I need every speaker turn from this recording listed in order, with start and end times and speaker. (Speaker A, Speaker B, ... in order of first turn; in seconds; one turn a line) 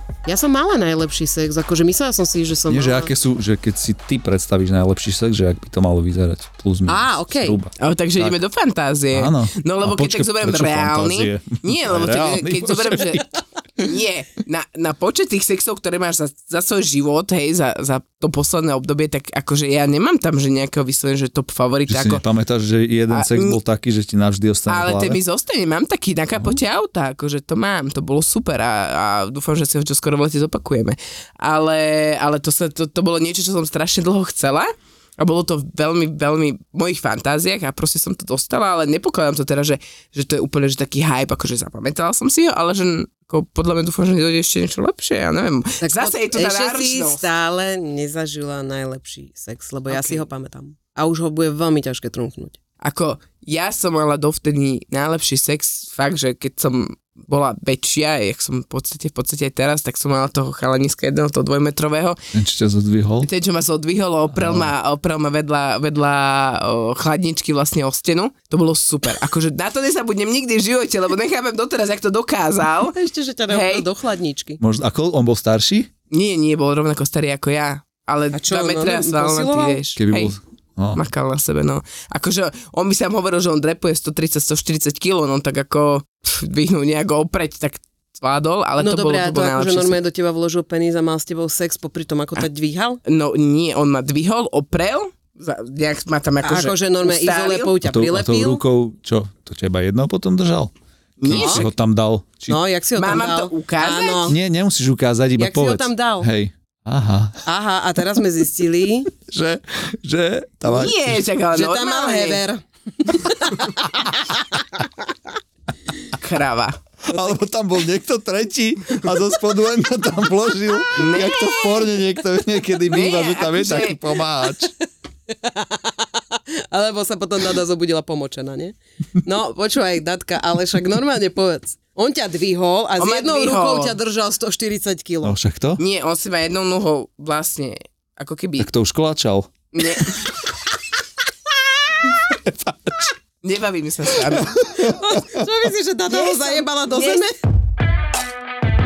Speaker A: 0.2-3.1
Speaker B: 2.7-8.4
Speaker A: 6.9-7.6
Speaker C: 7.8-22.2
Speaker B: 9.1-13.2
Speaker B: 21.9-25.2
Speaker C: 23.1-23.6
Speaker C: 24.7-47.2
Speaker A: 45.8-52.6
Speaker C: 49.9-50.2
Speaker C: 52.8-62.2
Speaker B: 62.3-63.3
Speaker C: 63.2-72.9
Speaker B: 64.3-64.7
Speaker A: 72.9-74.6
Speaker C: 73.5-73.8
Speaker B: 74.6-75.9
Speaker C: 76.1-80.3
Speaker A: 78.3-79.8
Speaker B: 80.0-81.0
Speaker C: 80.9-90.0
Speaker A: 88.8-93.0
Speaker C: 93.0-97.7
Speaker A: 96.4-98.6
Speaker B: 97.8-100.7
Speaker C: 101.2-101.7
Speaker B: 101.3-102.6
Speaker A: 101.3-101.6
Speaker A: 102.5-104.4
Speaker C: 103.0-104.2
Speaker B: 104.3-107.4
Speaker A: 105.4-106.3
Speaker A: 107.5-109.1
Speaker B: 109.1-111.2
Speaker C: 110.7-112.4
Speaker A: 111.5-114.7
Speaker C: 116.2-116.8
Speaker B: 117.1-124.7
Speaker C: 121.0-121.7
Speaker C: 122.9-124.0
Speaker A: 125.3-135.3
Speaker C: 133.0-133.9
Speaker B: 135.2-135.8
Speaker C: 135.8-138.7
Speaker B: 138.6-139.5
Speaker C: 139.7-140.2
Speaker B: 142.4-143.1
Speaker C: 143.4-144.5
Speaker A: 144.8-147.3
Speaker C: 146.1-147.2